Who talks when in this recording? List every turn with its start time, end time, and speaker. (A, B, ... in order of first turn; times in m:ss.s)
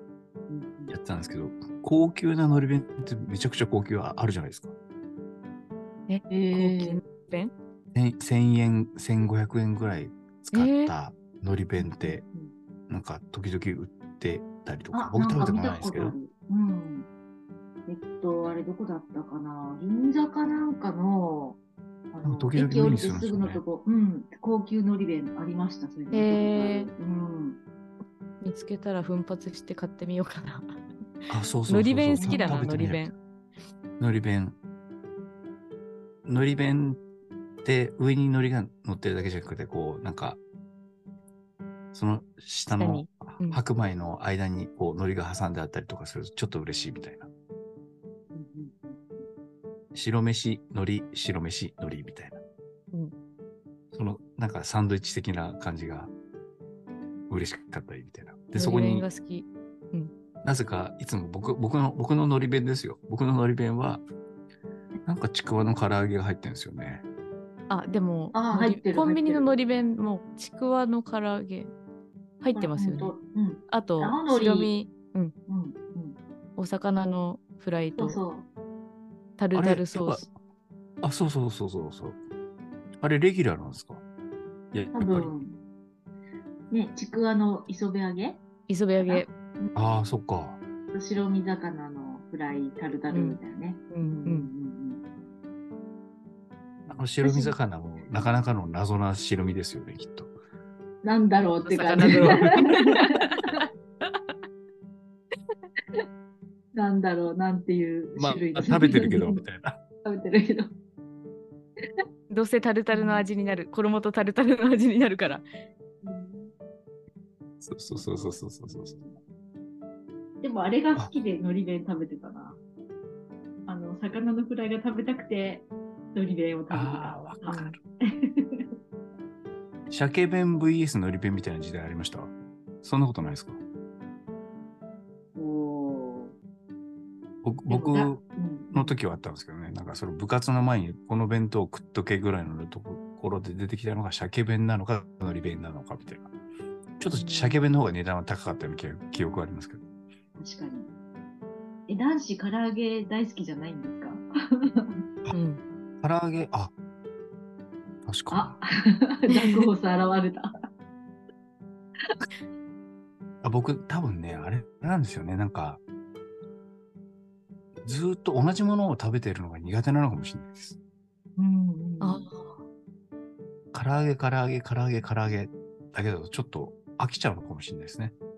0:00.5-0:00.9 A
0:00.9-0:04.7 B
0:06.1-0:07.5 C
0:06.3-0:07.0 A
0:07.9-0:12.2 B
0:10.5-0:10.9 C
0:11.8-0:12.5 A
0:12.9-0:16.1 B
0:14.9-0:17.1 A
0:17.9-0:21.6 A
0:22.1-0:27.6 A
0:22.2-0:23.6 B
0:26.1-0:26.9 C
0:28.4-0:30.8 C
0:31.3-0:33.1 B
0:31.7-0:33.1 C
0:32.2-0:32.6 A
0:34.0-0:34.6 B
0:36.2-0:37.0 B
0:37.6-0:40.4 B
0:41.9-0:47.3 B
0:42.8-0:43.6 C
0:48.3-0:49.2 A
0:49.9-0:52.4 B
0:53.9-0:56.1 B
0:57.3-0:59.0 B
0:58.5-1:00.1 C
1:00.4-1:04.0 B
1:05.0-1:07.0 B
1:07.7-1:11.7 C
1:08.3-1:09.5 A
1:12.4-1:13.1 C
1:12.6-1:14.7 A
1:13.7-1:15.3 C
1:15.5-1:16.2 A
1:16.6-1:18.2 C
1:18.0-1:18.5 A
1:19.4-1:20.2 C
1:19.5-1:20.3 B
1:21.0-1:22.2 B
1:23.0-1:24.0 B
1:24.7-1:25.3 B
1:24.9-1:25.6 A
1:26.7-1:28.4 A
1:28.7-1:29.3 C
1:29.0-1:29.7 A
1:29.7-1:30.6 B
1:30.9-1:35.0 A
1:33.1-1:33.4 C
1:33.9-1:34.5 C
1:36.8-1:37.6 A
1:36.9-1:40.3 B
1:41.0-1:43.6 A
1:41.6-1:43.6 C
1:42.0-1:42.8 B
1:46.7-1:49.4 A
1:48.2-1:49.8 B
1:50.0-1:50.7 A
1:52.3-1:55.4 C
1:52.9-1:53.2 A
1:56.0-1:56.5 A
1:57.6-1:59.0 B
1:57.9-1:59.2 A
2:00.4-2:02.6 A
2:03.7-2:08.7 A
2:06.7-2:07.8 B
2:09.9-2:13.6 B
2:15.4-2:16.3 A
2:17.4-2:26.3 B
2:17.7-2:19.0 A
2:27.0-2:29.8 B
2:27.1-2:27.6 A
2:30.4-2:30.9 A
2:31.9-2:35.0 A
2:35.3-2:35.6 C
2:36.0-2:36.7 B
2:38.0-2:38.6 B
2:38.3-2:40.5 A
2:39.3-2:39.7 C
2:43.4-2:45.8 B
2:47.8-2:50.8 B
2:51.4-2:52.3 A
2:52.0-2:52.6 C
2:53.7-2:58.1 B